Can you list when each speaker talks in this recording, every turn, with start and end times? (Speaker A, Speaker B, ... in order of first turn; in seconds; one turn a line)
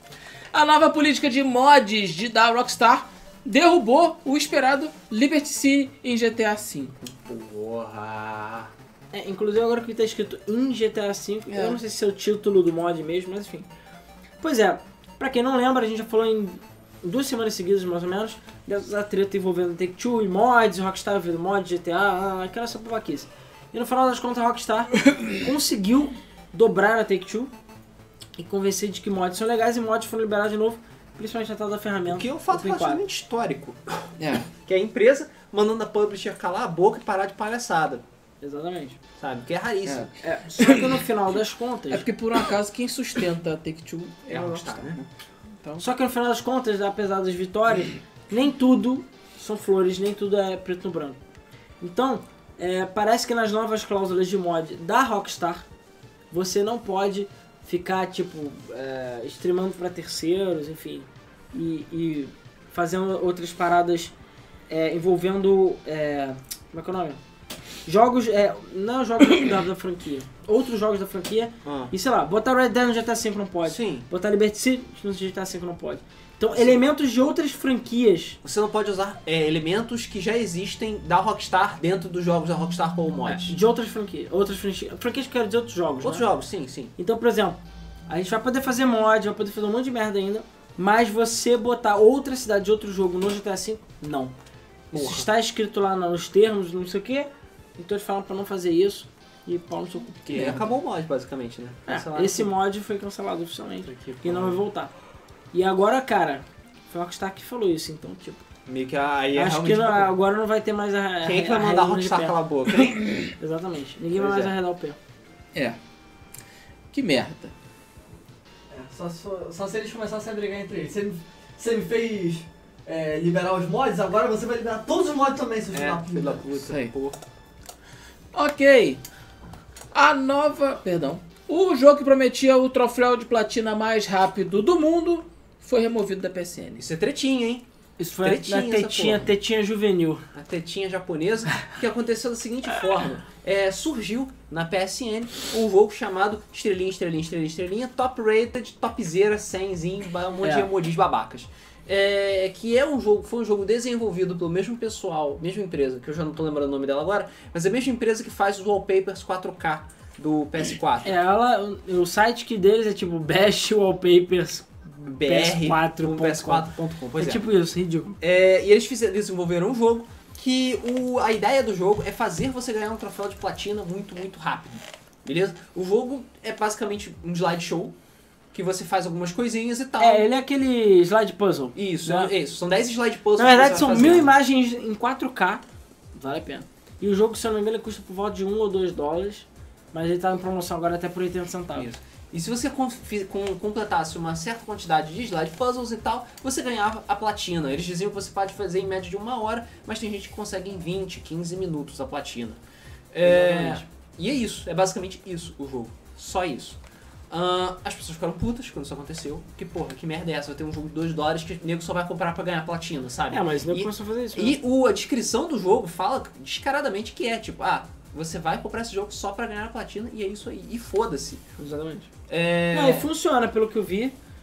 Speaker A: 0.5-6.9
Speaker B: 7.0-8.7
Speaker C: 9.1-13.7
Speaker A: 11.5-11.8
Speaker C: 14.4-27.5
Speaker C: 28.4-33.0
Speaker B: 32.1-33.8
Speaker A: 34.2-34.5
Speaker B: 34.6-38.0
Speaker C: 38.4-39.0
Speaker B: 39.2-40.1
Speaker A: 39.9-41.0
Speaker C: 40.2-42.0
Speaker A: 41.9-45.1
Speaker B: 44.3-45.0
Speaker C: 45.8-51.2
Speaker C: 51.8-55.6
Speaker C: 56.3-64.1
Speaker C: 64.7-67.2
Speaker C: 67.9-78.4
Speaker B: 71.6-71.9
Speaker B: 73.6-74.0
Speaker B: 76.5-76.8
Speaker B: 78.4-83.5
Speaker C: 83.3-86.3
Speaker B: 86.0-86.9
Speaker C: 87.0-94.3
Speaker B: 94.9-95.3
Speaker C: 94.9-100.6
Speaker B: 100.3-102.5
Speaker A: 100.3-100.6
Speaker C: 101.9-104.9
Speaker B: 103.9-104.6
Speaker C: 105.5-108.4
Speaker B: 108.7-110.1
Speaker C: 109.3-112.3
Speaker B: 111.2-113.0
Speaker C: 113.3-115.0
Speaker B: 114.1-114.5
Speaker A: 116.9-117.5
Speaker D: 118.7-126.5
Speaker B: 125.7-127.2
Speaker A: 126.6-126.9
Speaker A: 128.3-129.0
Speaker A: 129.9-136.8
Speaker B: 136.8-137.6
Speaker C: 138.0-140.2
Speaker B: 138.2-139.3
Speaker B: 140.3-161.1
Speaker C: 150.4-150.7
Speaker C: 161.0-168.2
Speaker B: 165.1-167.5
Speaker B: 168.2-177.9
Speaker B: 178.5-180.3
Speaker C: 180.0-182.3
Speaker B: 181.7-184.3
Speaker C: 183.4-185.6
Speaker C: 186.1-191.9
Speaker B: 191.7-202.6
Speaker B: 203.1-206.8
Speaker C: 203.2-203.8
Speaker B: 207.3-221.4
Speaker C: 213.3-214.6
Speaker C: 221.6-222.1
Speaker B: 222.3-223.1
Speaker C: 222.7-224.2